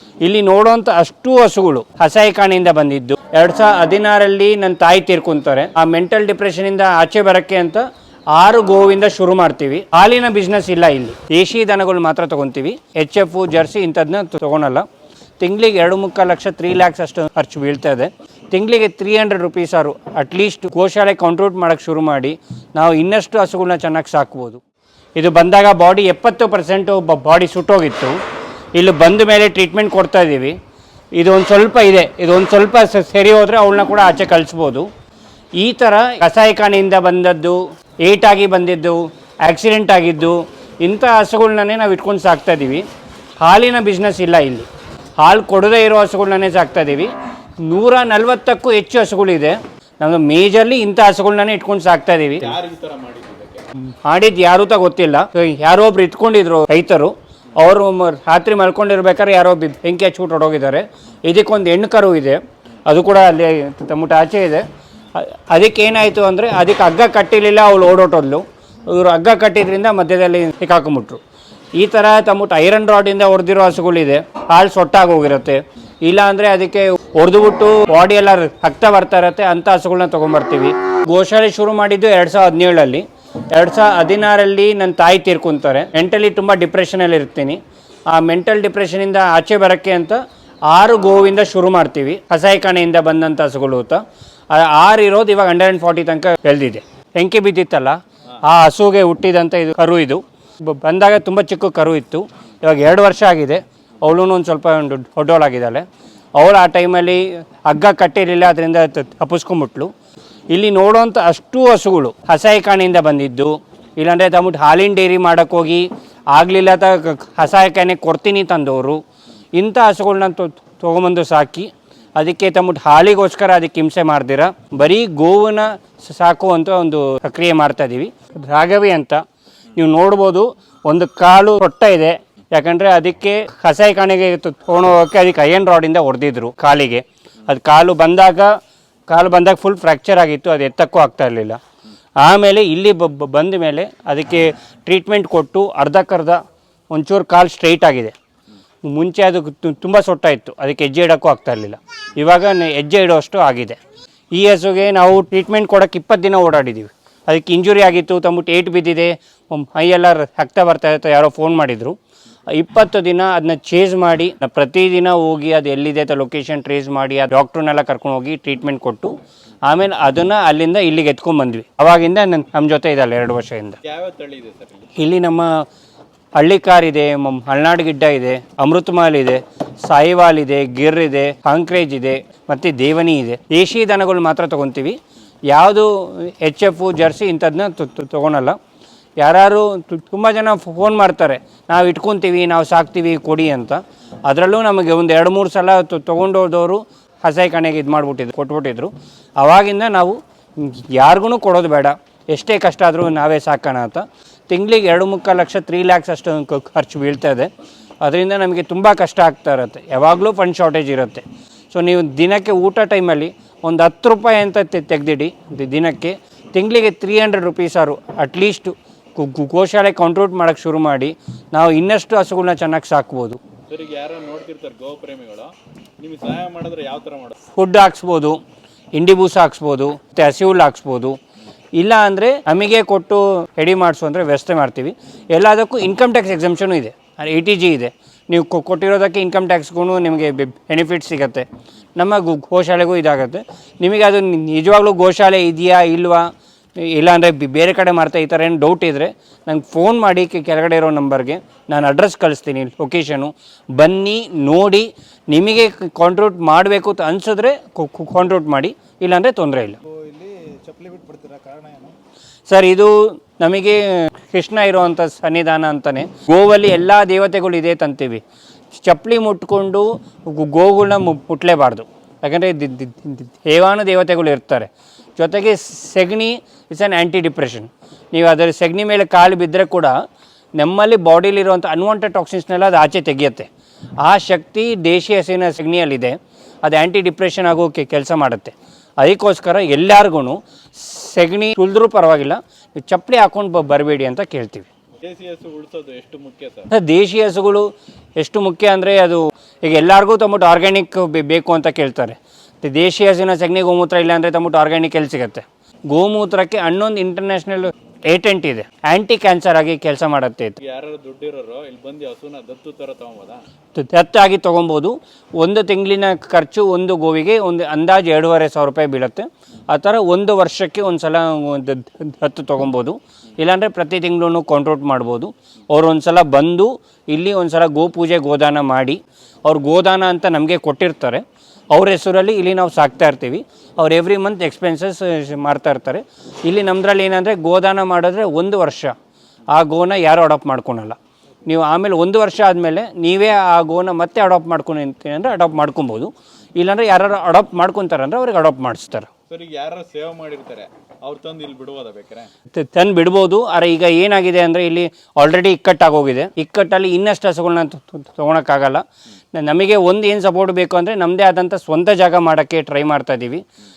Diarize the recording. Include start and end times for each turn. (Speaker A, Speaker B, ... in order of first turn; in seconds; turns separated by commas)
Speaker A: 0.2-14.9, Speaker A: 15.4-24.6, Speaker A: 25.2-28.2, Speaker A: 28.8-30.6, Speaker A: 31.2-34.9, Speaker A: 35.6-42.9, Speaker A: 43.4-44.7, Speaker A: 45.2-52.5, Speaker B: 52.4-53.7, Speaker A: 54.1-71.2, Speaker A: 71.8-109.9, Speaker A: 110.5-119.0, Speaker A: 119.6-129.2, Speaker A: 129.8-138.6, Speaker A: 139.1-141.6, Speaker A: 142.2-146.4, Speaker A: 146.9-148.2, Speaker A: 148.8-153.8, Speaker A: 154.3-162.0, Speaker A: 162.5-169.2, Speaker A: 169.7-173.8, Speaker B: 173.8-174.9, Speaker A: 175.0-175.7, Speaker A: 176.4-185.0, Speaker A: 185.5-188.6, Speaker A: 189.2-207.5, Speaker A: 208.0-223.4, Speaker B: 223.7-227.4, Speaker A: 227.5-228.4, Speaker A: 229.0-231.2, Speaker A: 231.8-259.8, Speaker C: 259.9-262.0, Speaker A: 262.5-268.2, Speaker A: 268.8-280.0, Speaker A: 280.6-283.5, Speaker A: 284.0-294.7, Speaker B: 295.0-296.7, Speaker A: 296.7-310.6, Speaker B: 310.6-313.4, Speaker A: 313.8-338.9, Speaker A: 339.5-349.1, Speaker B: 349.3-352.3, Speaker A: 352.5-363.4